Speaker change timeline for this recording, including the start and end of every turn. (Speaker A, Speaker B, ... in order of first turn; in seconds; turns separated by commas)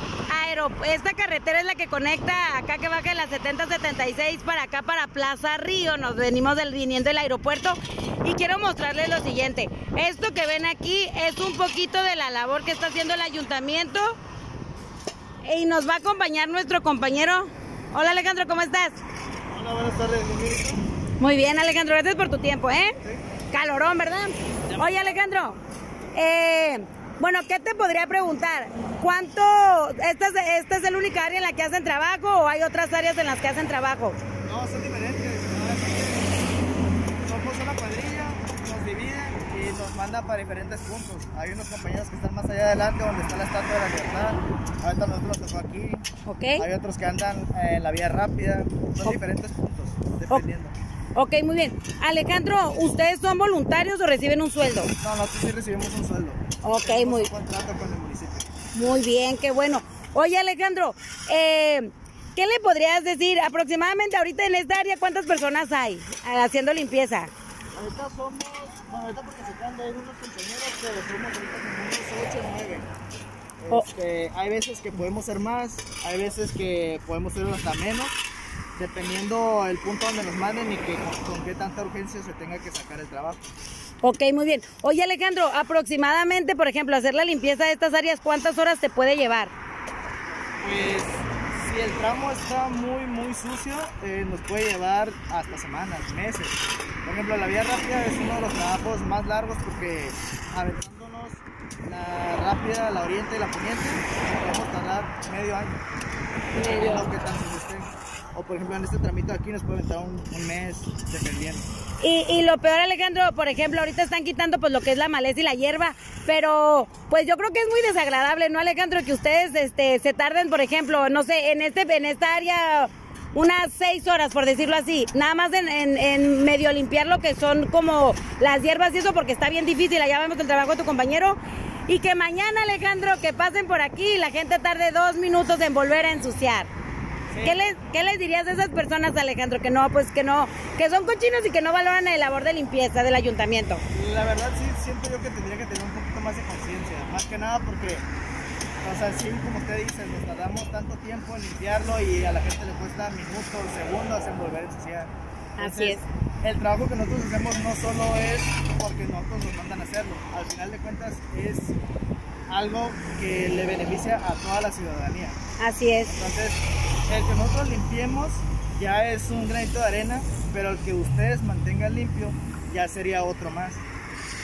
Speaker A: 0.3-14.2, Speaker A: 15.4-19.0, Speaker B: 19.5-20.8, Speaker A: 21.2-22.9, Speaker A: 23.5-25.6, Speaker B: 24.7-25.2, Speaker A: 26.1-34.2, Speaker B: 34.4-36.4, Speaker B: 37.2-46.0, Speaker A: 46.2-46.6, Speaker B: 46.5-50.7, Speaker A: 51.1-54.9, Speaker B: 55.0-58.5, Speaker A: 56.6-57.3, Speaker A: 58.7-67.3, Speaker B: 67.7-72.9, Speaker B: 73.6-78.2, Speaker B: 78.8-83.4, Speaker A: 84.0-89.5, Speaker B: 90.6-105.8, Speaker A: 106.5-107.1, Speaker B: 106.5-111.7, Speaker A: 112.0-136.7, Speaker B: 137.3-137.6, Speaker A: 137.4-143.8, Speaker B: 143.9-148.0, Speaker B: 148.8-161.8, Speaker A: 155.6-156.0, Speaker B: 162.5-165.4, Speaker A: 165.6-166.1, Speaker B: 166.0-173.8